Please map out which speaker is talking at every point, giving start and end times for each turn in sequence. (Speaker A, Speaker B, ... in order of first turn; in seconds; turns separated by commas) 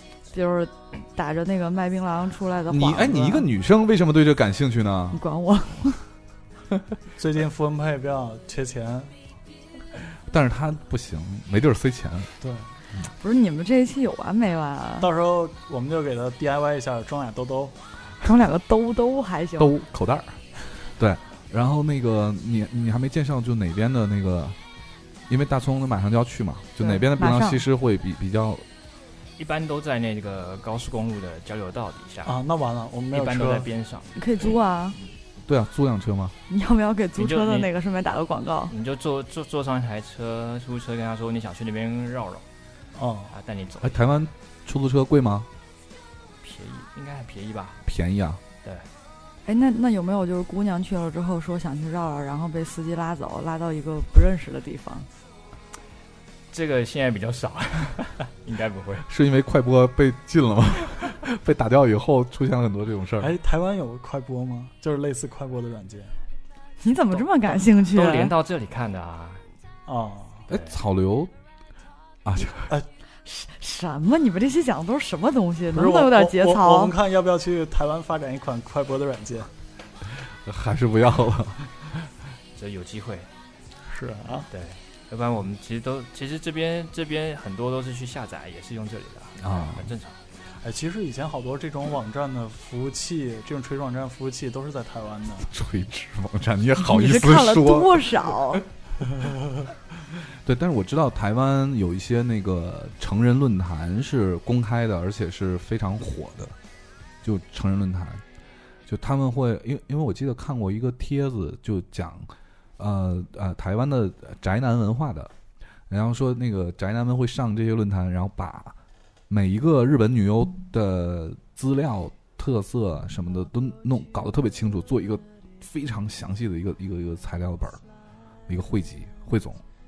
Speaker A: 0.3-3.5, Speaker B: 2.7-5.2, Speaker A: 5.1-6.0, Speaker C: 7.2-9.1, Speaker B: 10.3-12.3, Speaker C: 12.4-12.7, Speaker A: 13.2-15.1, Speaker C: 15.0-17.8, Speaker A: 18.2-19.7, Speaker B: 19.6-24.6, Speaker B: 25.3-28.6, Speaker A: 26.8-27.6, Speaker D: 29.4-32.4, Speaker C: 32.2-33.7, Speaker D: 33.1-34.2, Speaker A: 34.1-35.0, Speaker B: 35.4-36.4, Speaker A: 36.5-38.7, Speaker D: 37.2-37.7, Speaker D: 38.7-42.4, Speaker C: 42.9-43.3, Speaker D: 43.3-44.0, Speaker B: 43.8-45.5, Speaker D: 46.4-47.8, Speaker B: 47.8-48.4, Speaker A: 49.5-55.1, Speaker D: 56.5-59.0, Speaker B: 59.0-63.3, Speaker C: 63.2-66.1, Speaker A: 66.8-68.3, Speaker D: 67.8-69.4, Speaker C: 69.8-70.5, Speaker B: 70.5-71.3, Speaker D: 70.5-70.7, Speaker B: 72.2-72.8, Speaker A: 73.2-76.9, Speaker C: 75.7-79.5, Speaker B: 80.4-81.9, Speaker D: 82.5-83.3, Speaker C: 83.9-84.5, Speaker D: 84.5-90.2, Speaker B: 89.4-89.9, Speaker C: 90.6-95.5, Speaker B: 95.4-98.1, Speaker A: 96.8-98.6, Speaker B: 100.3-106.5, Speaker B: 107.2-108.2, Speaker B: 108.9-115.3, Speaker B: 115.9-118.8, Speaker B: 119.3-127.8, Speaker B: 128.5-129.6